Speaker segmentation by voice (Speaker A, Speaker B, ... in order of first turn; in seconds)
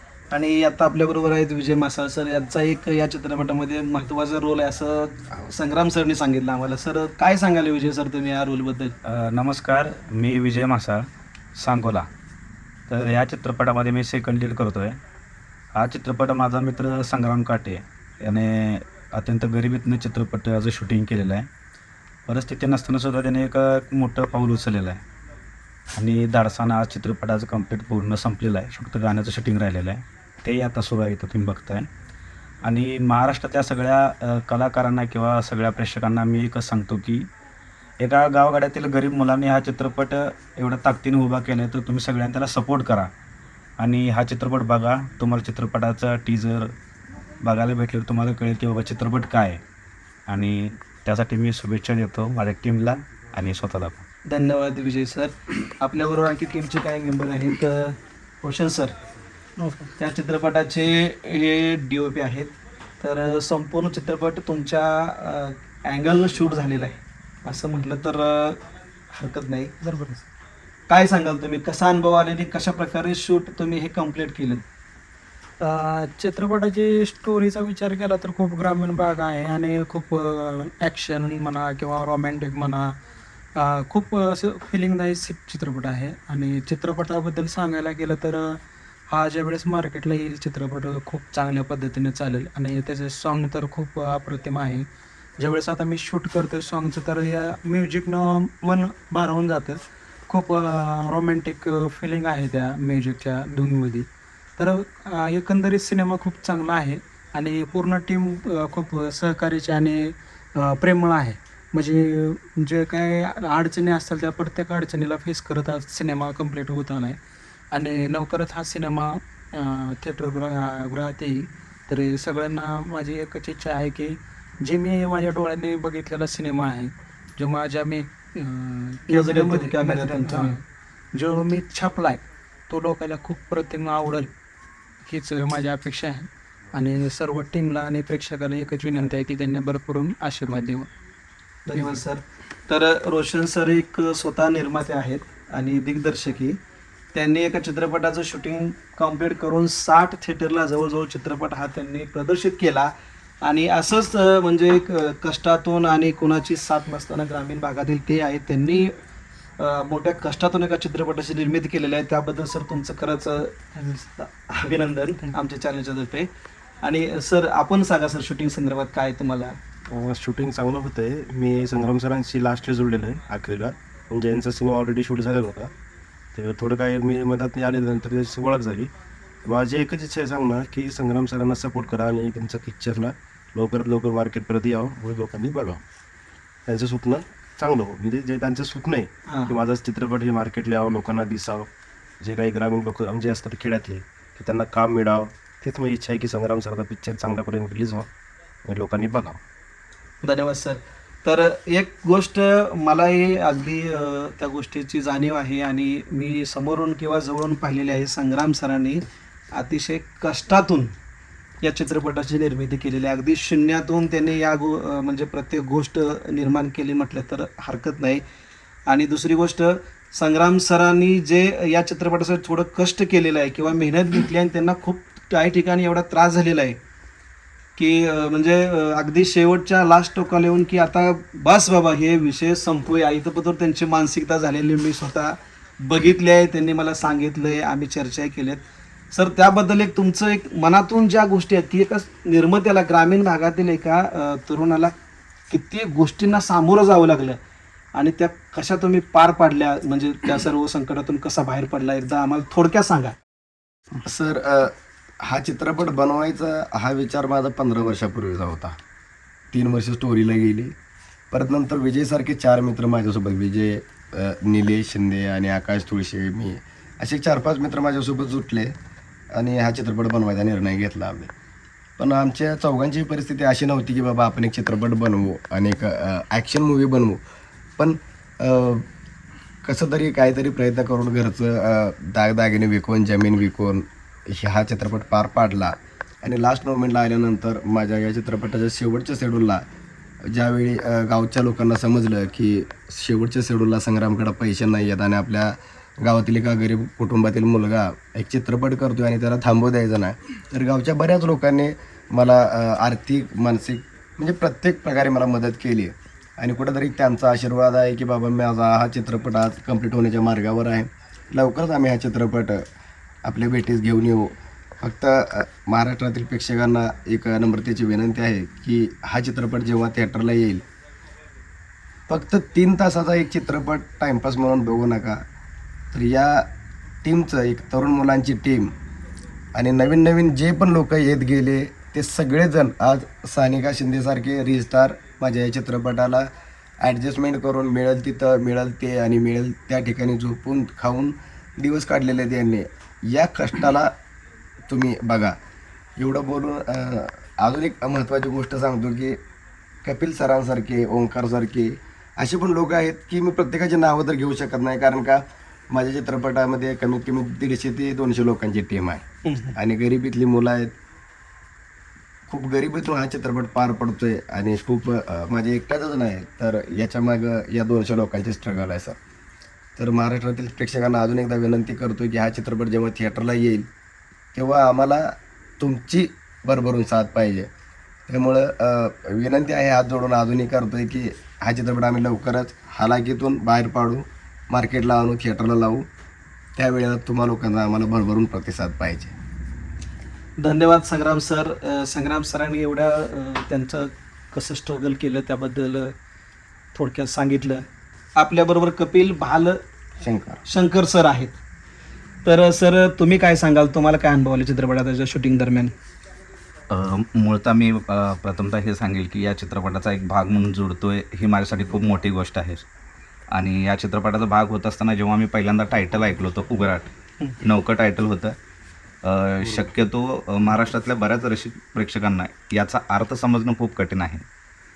Speaker A: 0.3-8.9, 54.3-59.0, 60.0-69.8, 70.9-74.6, 129.1-130.6, 141.7-146.6, 147.1-158.9, 159.6-163.6, 164.2-166.3, 166.8-169.6, 189.3-189.6, 200.2-210.9, 211.6-218.2, 218.9-226.8, 227.8-244.9, 245.5-247.4, 247.9-253.2, 359.2-359.6, 390.4-396.0, 396.7-399.6, 400.5-401.4, 402.2-405.7
Speaker B: 9.0-12.1, 12.9-15.0, 15.8-21.5, 22.3-25.0, 25.9-31.9, 32.6-37.3, 38.0-43.1, 43.8-46.7, 47.4-49.6, 50.3-54.0
Speaker C: 59.6-59.9, 69.8-70.3, 75.6-83.0, 83.6-94.9, 95.4-117.2, 117.7-130.6, 131.1-134.3, 135.0-140.9, 163.8-164.1
Speaker D: 169.9-175.7, 176.3-178.9, 179.4-185.8, 186.7-191.7, 192.2-198.1, 198.7-199.4
Speaker E: 254.1-258.8, 259.5-260.7, 261.3-268.7, 269.4-271.3, 272.0-277.2, 277.8-278.9, 279.6-289.6, 290.3-312.6, 313.3-320.6, 322.1-325.2, 325.9-326.4, 327.0-328.7, 329.6-336.3, 336.8-343.9, 344.7-345.4, 346.0-349.2, 349.9-359.0, 359.6-360.7, 362.3-369.0, 369.8-373.7, 374.4-377.5, 378.1-385.9, 386.6-389.1, 400.0-400.4
Speaker F: 406.7-412.6, 413.3-416.9, 417.4-418.4, 419.0-424.2